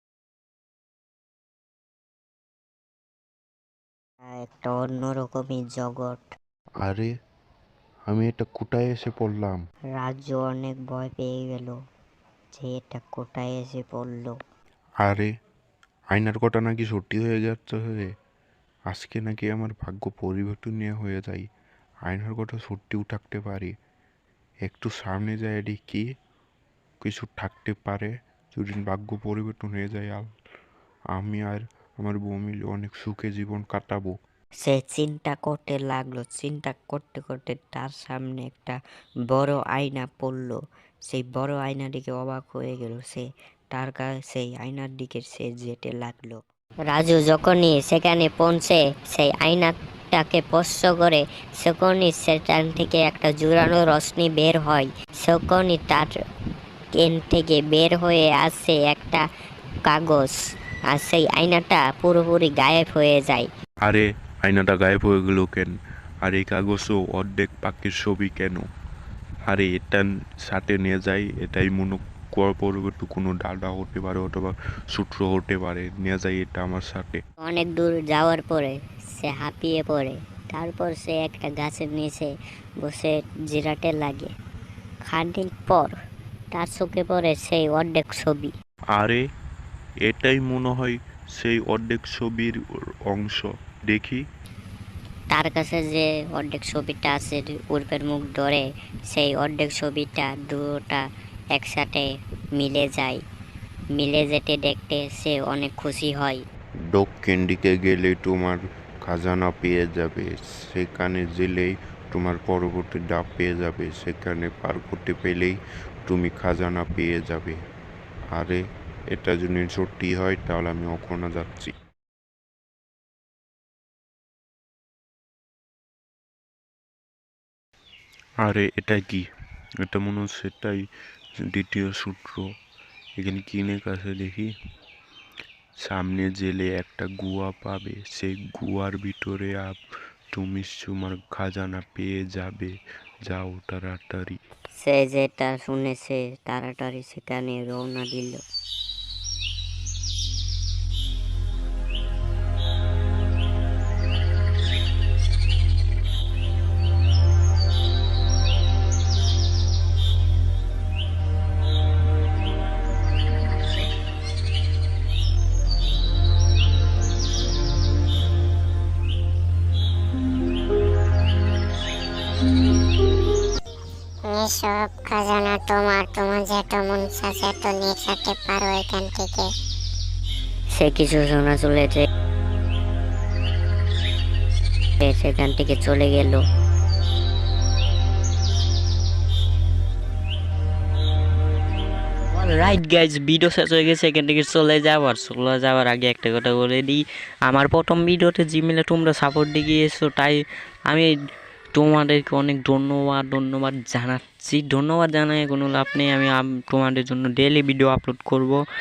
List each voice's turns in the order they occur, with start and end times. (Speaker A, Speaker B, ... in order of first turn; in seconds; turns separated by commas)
Speaker A: 4.3-6.3, Speaker B: 6.8-7.1, Speaker B: 8.1-9.6, Speaker A: 10.0-11.8, Speaker A: 12.6-14.3, Speaker B: 15.0-15.3, Speaker B: 16.1-18.1, Speaker B: 18.9-21.5, Speaker B: 22.1-23.7, Speaker B: 24.7-26.0, Speaker B: 27.0-30.3, Speaker B: 31.1-34.1, Speaker A: 34.6-38.8, Speaker A: 39.3-56.1, Speaker A: 57.0-59.2, Speaker A: 59.9-60.4, Speaker A: 60.9-63.5, Speaker B: 63.9-65.7, Speaker B: 66.2-68.6, Speaker B: 69.5-77.2, Speaker A: 77.4-84.3, Speaker A: 85.1-85.9, Speaker A: 86.5-88.5, Speaker B: 89.0-89.2, Speaker B: 90.0-94.2, Speaker A: 95.3-103.2, Speaker A: 103.9-106.4, Speaker B: 106.9-117.6, Speaker B: 118.3-118.6, Speaker B: 119.1-121.7, Speaker B: 128.4-129.3, Speaker B: 129.8-130.8, Speaker B: 131.4-132.5, Speaker B: 133.2-134.5, Speaker B: 135.8-139.8, Speaker B: 140.3-142.7, Speaker B: 143.3-144.4, Speaker A: 144.8-148.4, Speaker C: 174.2-179.5, Speaker A: 180.7-182.0, Speaker A: 185.0-186.4, Speaker D: 192.4-200.4, Speaker D: 201.7-208.6, Speaker A: 207.6-208.2